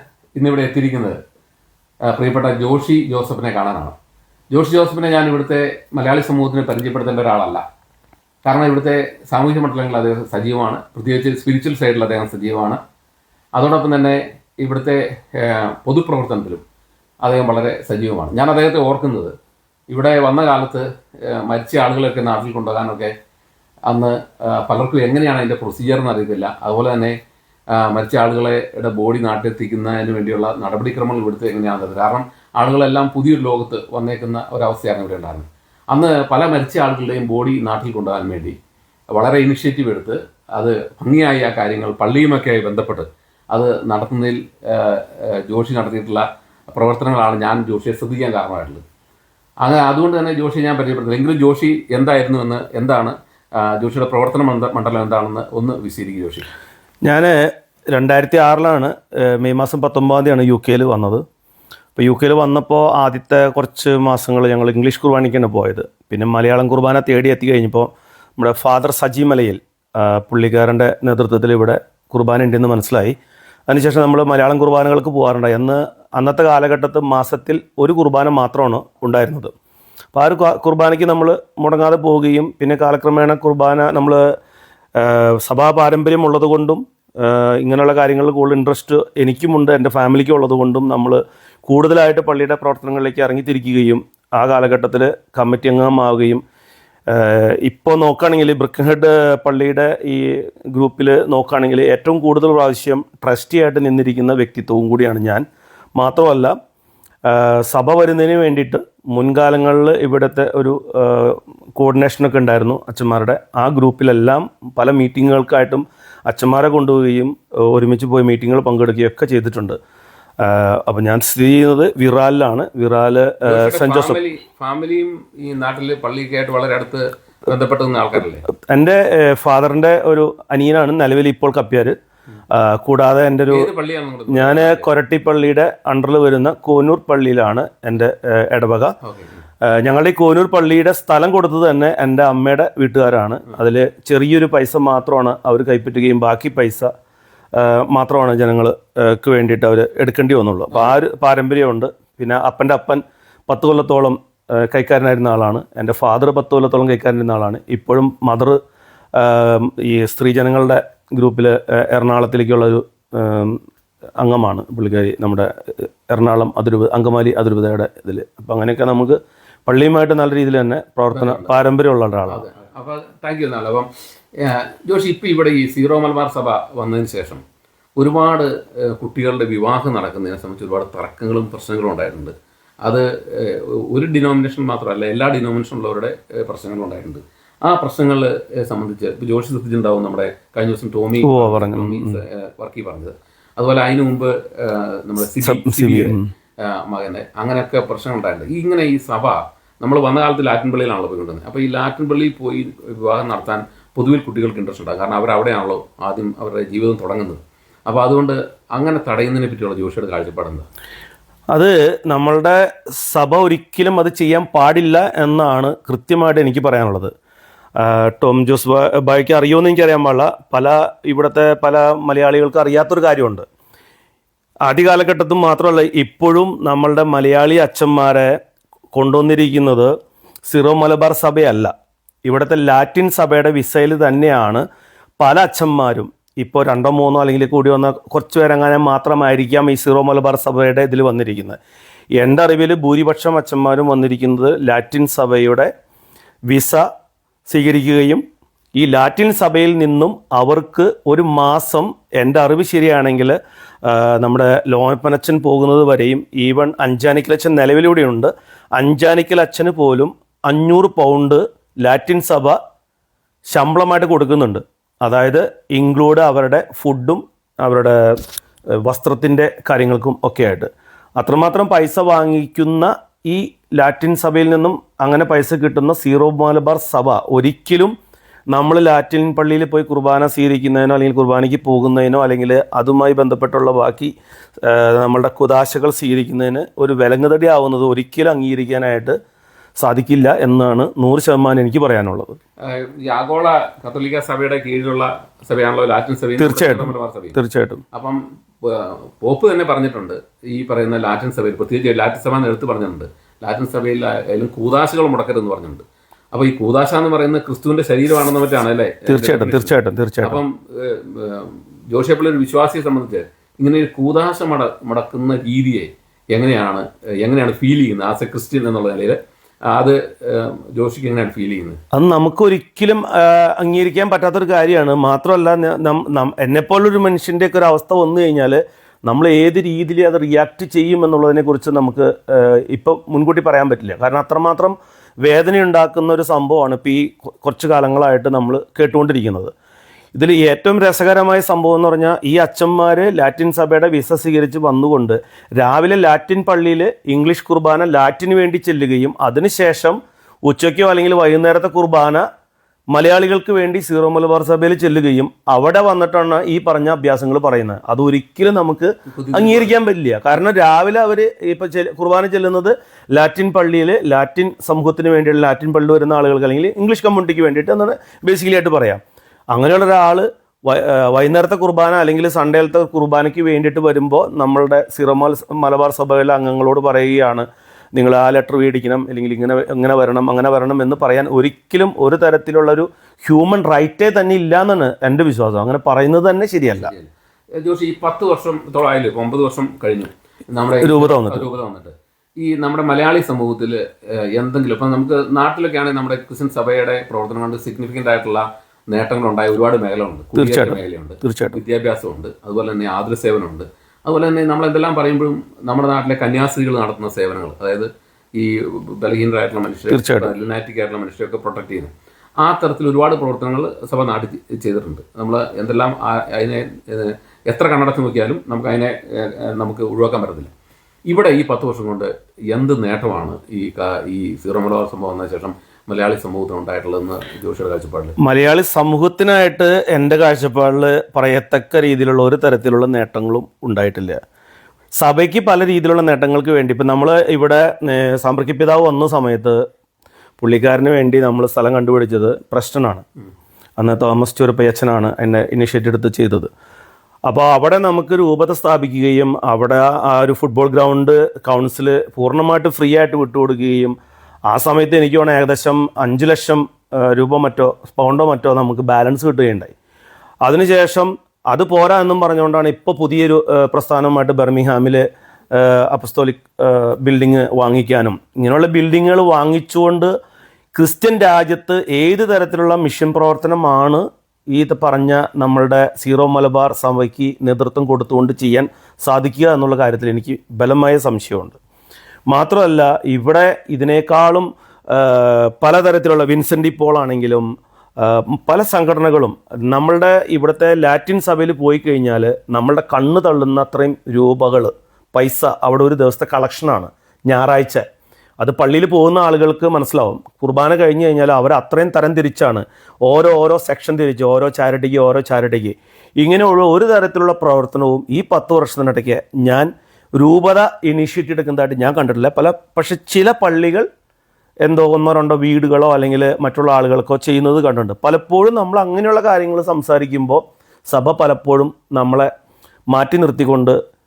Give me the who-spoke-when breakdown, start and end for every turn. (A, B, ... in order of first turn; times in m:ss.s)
0:00.4-0:01.2 A
0:02.1-0:04.0 A
0:04.5-0:07.6 A
0:08.4-0:12.8 A
0:13.6-0:16.6 A
0:17.2-0:19.3 A
0:19.9-0:23.1 A
0:23.9-0:27.2 A
0:27.7-0:38.6 A
0:39.1-0:48.8 A
0:49.6-0:56.5 A
0:57.1-1:01.2 B
1:02.0-1:13.2 B
1:13.7-1:19.5 B
1:20.1-1:24.2 B
1:25.0-1:36.4 B
1:37.1-1:45.4 B
1:46.0-1:46.6 B
1:47.3-1:59.8 B
2:00.4-2:04.2 B
2:03.4-2:08.4 A
2:08.5-2:12.0 B
2:12.5-2:13.7 B
2:13.5-2:14.9 A
2:14.3-2:19.0 B
2:19.0-2:19.4 A
2:19.6-2:26.9 B
2:27.5-2:38.6 B
2:30.7-2:31.0 A
2:39.2-2:43.6 B
2:44.2-2:52.4 B
2:51.1-2:51.5 A
2:52.3-2:57.4 A
2:58.0-3:30.7 A
3:11.2-3:12.2 B
3:15.4-3:16.3 B
3:31.5-3:37.1 B
3:37.8-3:43.5 B
3:44.7-3:48.4 B
3:48.9-3:49.9 B
3:50.5-3:51.7 B
3:52.3-3:54.6 B
3:55.2-4:01.6 B
4:02.2-4:05.7 B
4:06.5-4:06.8 B
4:07.5-4:08.2 B
4:08.8-4:22.6 B
4:23.5-4:28.0 B
4:28.8-4:37.9 B
4:38.5-4:44.1 B
4:44.6-4:49.2 B
4:49.8-4:52.4 B
4:52.7-4:57.4 A
4:56.4-4:57.8 B
4:57.9-5:19.2 A
5:09.1-5:10.4 B
5:19.7-5:21.8 A
5:21.9-5:39.5 B
5:40.2-5:52.2 B
5:52.9-6:09.0 B
5:59.1-5:59.7 A
6:09.5-6:26.9 B
6:26.8-6:51.9 A
6:30.8-6:31.5 B
6:40.4-6:41.6 B
6:49.9-6:50.3 B
6:52.4-7:00.5 A
7:01.1-7:08.2 A
7:08.2-7:14.2 B
7:15.0-7:19.6 B
7:20.4-7:23.0 B
7:23.8-7:26.5 B
7:27.3-7:34.0 B
7:34.5-7:39.7 B
7:40.4-7:50.1 B
7:50.7-8:01.6 B
8:02.3-8:07.5 B
8:08.0-8:17.8 B
8:18.4-8:33.9 B
8:34.6-8:42.3 B
8:42.9-8:43.8 B